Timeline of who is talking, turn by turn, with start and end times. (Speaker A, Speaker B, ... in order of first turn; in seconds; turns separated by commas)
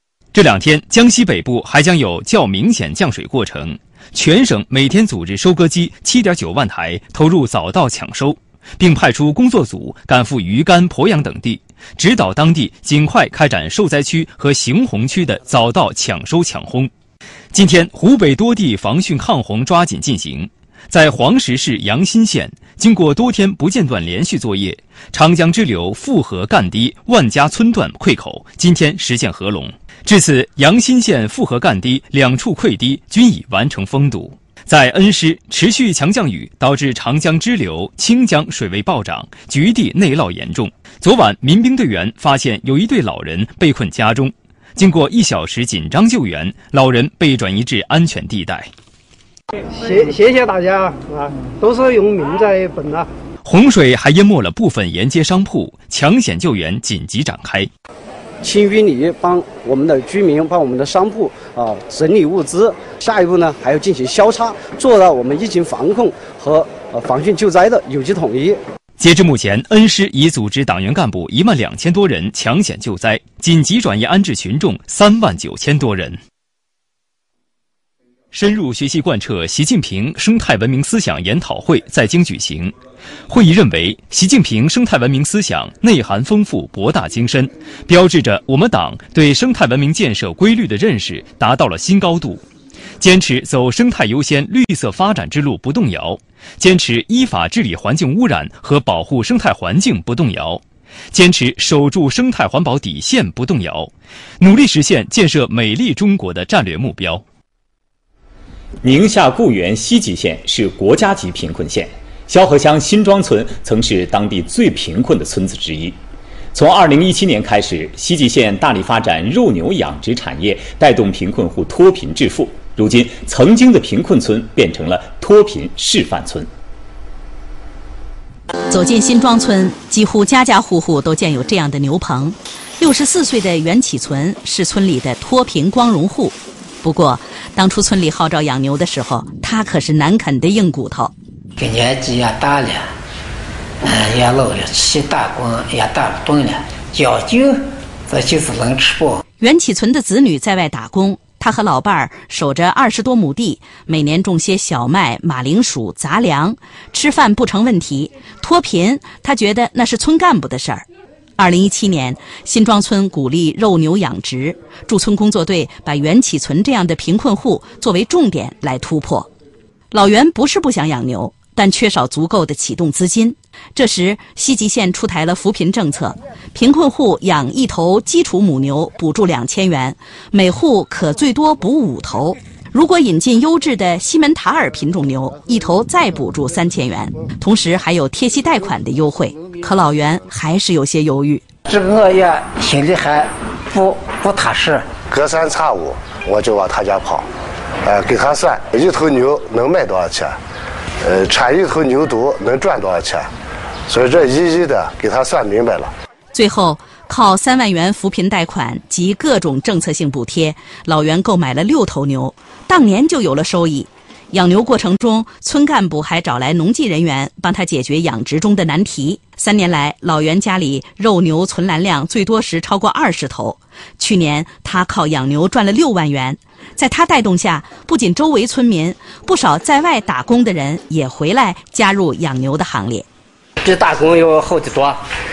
Speaker A: 0.3-16.9, Speaker A: 17.5-48.7, Speaker A: 53.4-57.7, Speaker B: 58.4-68.6, Speaker A: 69.0-76.2, Speaker A: 78.3-82.7, Speaker A: 83.3-92.4, Speaker A: 93.0-107.2, Speaker C: 108.8-116.0, Speaker C: 116.5-126.5, Speaker D: 128.7-141.1, Speaker E: 141.6-142.9, Speaker E: 143.8-149.2, Speaker D: 149.4-160.8, Speaker D: 161.4-169.3, Speaker D: 169.9-191.4, Speaker E: 191.7-194.9, Speaker F: 195.1-197.3, Speaker F: 197.8-200.4, Speaker F: 201.0-203.3, Speaker F: 203.9-205.9, Speaker D: 206.3-233.1, Speaker E: 233.6-235.0